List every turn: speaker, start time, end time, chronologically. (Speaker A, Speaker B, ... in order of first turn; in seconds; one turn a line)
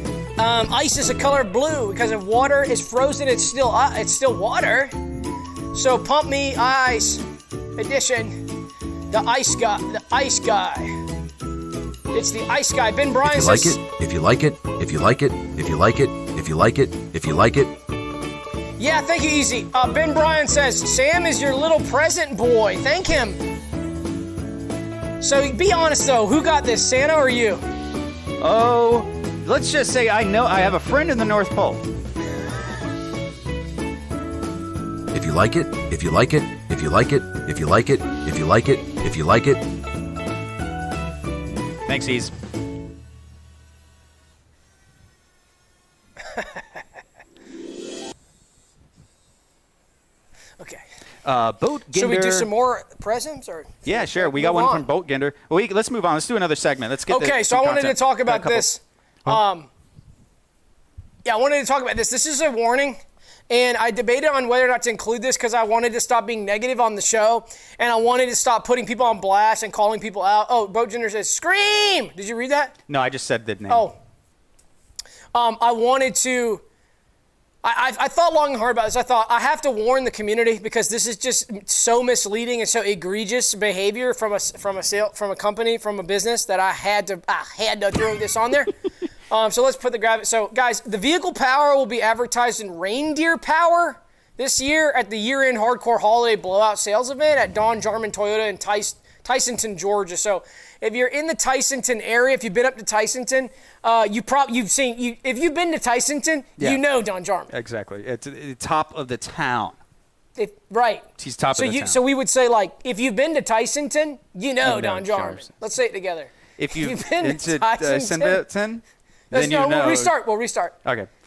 Speaker A: 0.4-5.0
Speaker A: 5.7-7.2
Speaker A: 7.8-8.4
Speaker A: 9.1-11.0
Speaker A: 12.1-13.8
Speaker B: 13.2-17.8
Speaker A: 18.8-23.4
Speaker A: 25.2-27.6
Speaker C: 28.4-31.9
Speaker B: 35.1-39.7
Speaker C: 41.9-42.3
Speaker C: 51.2-52.5
Speaker A: 51.9-54.9
Speaker C: 53.9-58.7
Speaker A: 57.1-59.7
Speaker A: 61.2-72.8
Speaker C: 72.9-73.9
Speaker A: 73.7-74.0
Speaker A: 75.3-76.6
Speaker A: 77.6-88.8
Speaker A: 89.3-107.5
Speaker C: 107.5-109.8
Speaker A: 110.4-118.5
Speaker C: 111.2-112.0
Speaker C: 114.6-115.5
Speaker C: 116.6-120.2
Speaker A: 119.3-120.8
Speaker C: 120.8-121.1